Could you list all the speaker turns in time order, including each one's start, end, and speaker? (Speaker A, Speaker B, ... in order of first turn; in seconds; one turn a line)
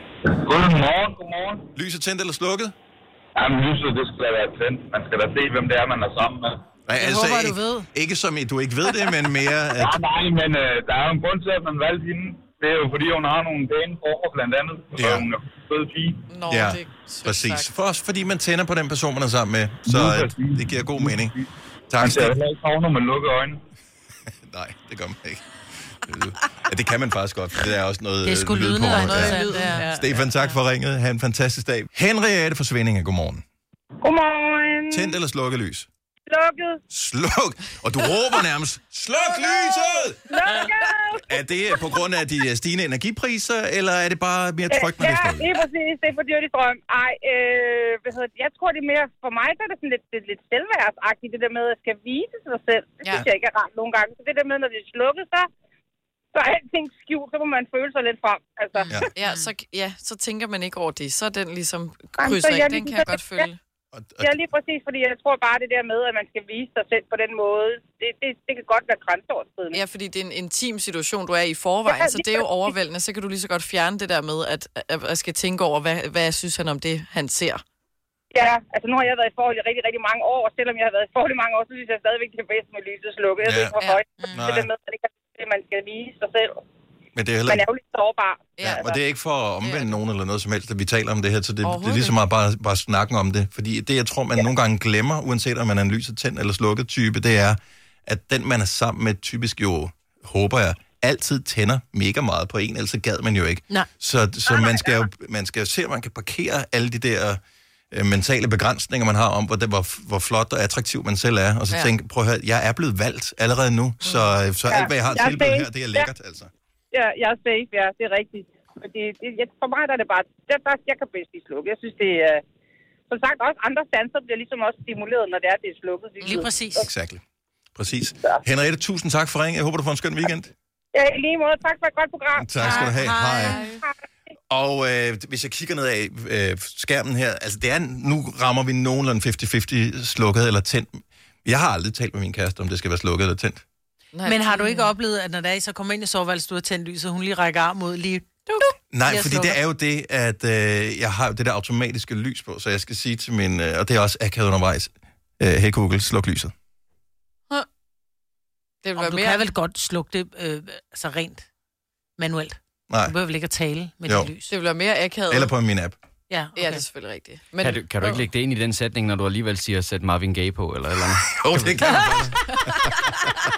Speaker A: 0.3-1.7
Speaker B: 1.8-2.7
Speaker A: 3.4-6.7
Speaker B: 6.9-10.0
Speaker C: 7.0-7.9
Speaker A: 9.8-16.2
Speaker B: 14.9-15.3
Speaker D: 16.3-17.7
Speaker B: 16.5-21.3
Speaker A: 19.9-21.5
Speaker B: 21.9-22.4
Speaker A: 22.0-23.6
Speaker B: 24.4-33.4
Speaker C: 28.2-30.0
Speaker D: 28.9-30.1
Speaker E: 34.0-35.2
Speaker B: 34.9-35.9
Speaker E: 36.3-36.8
Speaker B: 36.9-40.3
Speaker E: 39.2-41.3
Speaker B: 41.3-45.5
Speaker E: 44.7-55.5
Speaker E: 56.3-59.1
Speaker C: 58.8-59.5
Speaker D: 59.1-63.6
Speaker E: 62.2-63.5
Speaker B: 63.9-64.3
Speaker E: 64.2-69.8
Speaker D: 69.7-77.6
Speaker E: 71.9-72.5
Speaker E: 78.3-86.6
Speaker B: 83.4-83.8
Speaker B: 84.3-84.7
Speaker B: 87.2-87.7
Speaker E: 87.5-88.9
Speaker D: 88.6-89.0
Speaker B: 88.6-107.4
Speaker D: 89.6-90.0
Speaker D: 91.6-92.2
Speaker E: 104.5-104.8
Speaker B: 107.9-116.5
Speaker E: 114.7-116.1
Speaker E: 116.9-122.4
Speaker E: 123.1-126.9
Speaker C: 126.2-126.9
Speaker B: 126.8-127.2
Speaker B: 127.8-130.5
Speaker E: 130.9-132.9
Speaker B: 132.4-133.6
Speaker C: 132.6-133.7
Speaker D: 133.4-133.8
Speaker B: 134.5-143.6
Speaker D: 144.1-144.9
Speaker C: 144.2-148.3
Speaker D: 148.5-148.7
Speaker B: 148.9-156.5
Speaker C: 149.0-149.6
Speaker D: 158.8-159.5
Speaker C: 158.9-161.5
Speaker C: 162.2-164.5
Speaker B: 162.9-163.2
Speaker B: 164.1-164.3
Speaker D: 164.5-165.5
Speaker B: 165.3-166.0
Speaker C: 166.3-166.8
Speaker D: 166.6-168.2
Speaker F: 167.6-172.3
Speaker B: 171.4-172.6